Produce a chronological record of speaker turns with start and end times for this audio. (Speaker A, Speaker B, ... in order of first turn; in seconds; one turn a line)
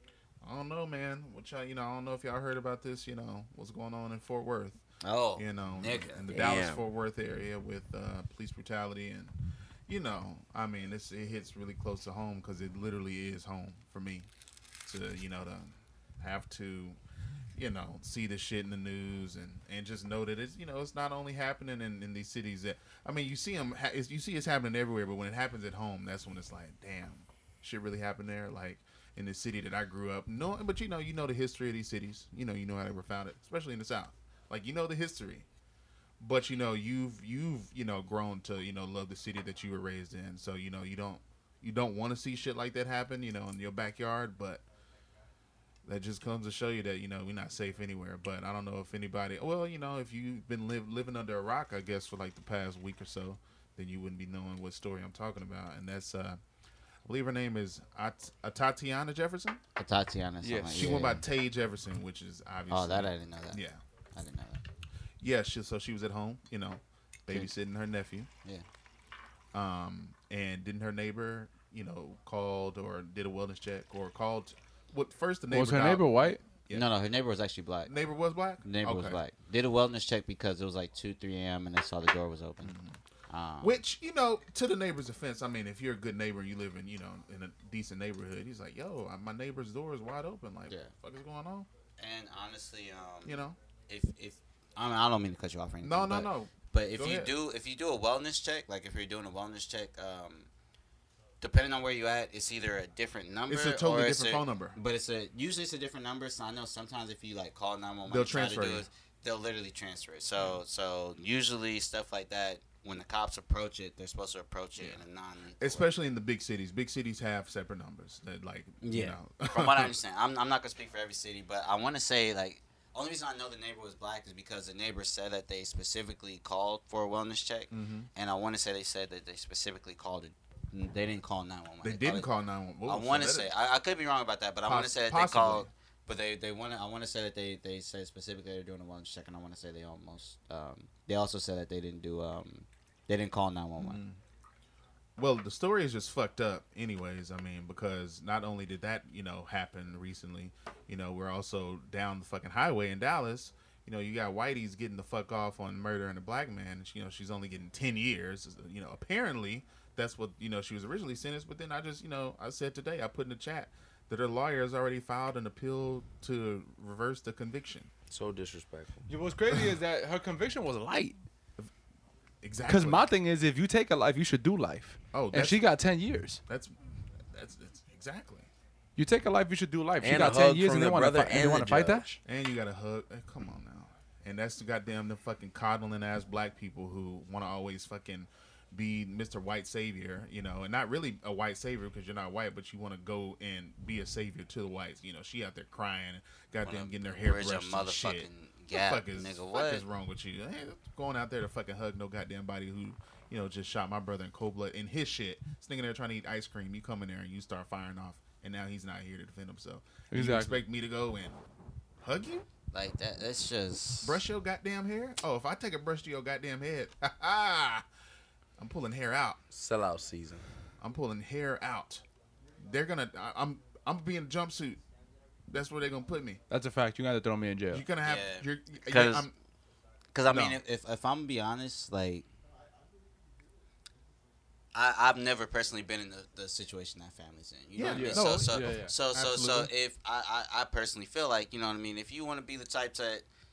Speaker A: 0.4-4.8
Speaker B: 5.0-6.2
Speaker A: 5.4-9.3
Speaker C: 6.3-6.8
Speaker A: 9.9-14.3
Speaker A: 14.8-17.0
Speaker A: 17.6-35.5
Speaker A: 36.2-44.6
Speaker A: 45.9-56.4
Speaker A: 57.0-59.6
Speaker B: 59.8-61.2
Speaker D: 60.4-61.0
Speaker A: 60.7-63.8
Speaker B: 62.7-63.6
Speaker B: 64.1-64.6
Speaker A: 65.2-68.3
Speaker A: 69.5-76.9
Speaker D: 75.5-76.4
Speaker B: 76.7-77.9
Speaker A: 77.9-79.2
Speaker B: 78.6-82.8
Speaker A: 82.6-83.0
Speaker B: 83.3-83.8
Speaker A: 83.6-91.7
Speaker B: 92.0-100.5
Speaker A: 93.2-93.6
Speaker A: 95.8-97.3
Speaker B: 101.4-115.9
Speaker A: 103.5-104.8
Speaker A: 108.1-108.8
Speaker A: 115.6-119.9
Speaker B: 118.8-132.3
Speaker A: 127.7-128.1
Speaker A: 131.8-133.5
Speaker B: 132.9-144.0
Speaker A: 134.7-135.7
Speaker A: 143.8-144.2
Speaker A: 145.2-167.9
Speaker C: 168.1-169.1
Speaker D: 169.1-171.2
Speaker A: 169.5-169.8
Speaker A: 172.4-173.1
Speaker D: 172.7-176.4
Speaker A: 175.1-175.6
Speaker A: 176.5-176.7
Speaker A: 177.3-178.5
Speaker D: 179.0-182.2
Speaker C: 180.0-182.2
Speaker A: 182.2-211.4
Speaker B: 196.6-199.8
Speaker D: 210.1-210.6
Speaker A: 212.0-212.5
Speaker B: 212.7-214.2
Speaker A: 214.0-217.8
Speaker A: 218.6-219.4
Speaker C: 219.5-220.4
Speaker A: 220.8-222.0
Speaker A: 222.6-224.8
Speaker A: 225.5-226.4
Speaker D: 226.5-227.8
Speaker A: 227.7-229.3
Speaker B: 228.0-229.3
Speaker B: 230.1-232.3
Speaker A: 230.3-230.6
Speaker B: 234.7-243.2
Speaker A: 237.8-239.7
Speaker D: 237.9-238.9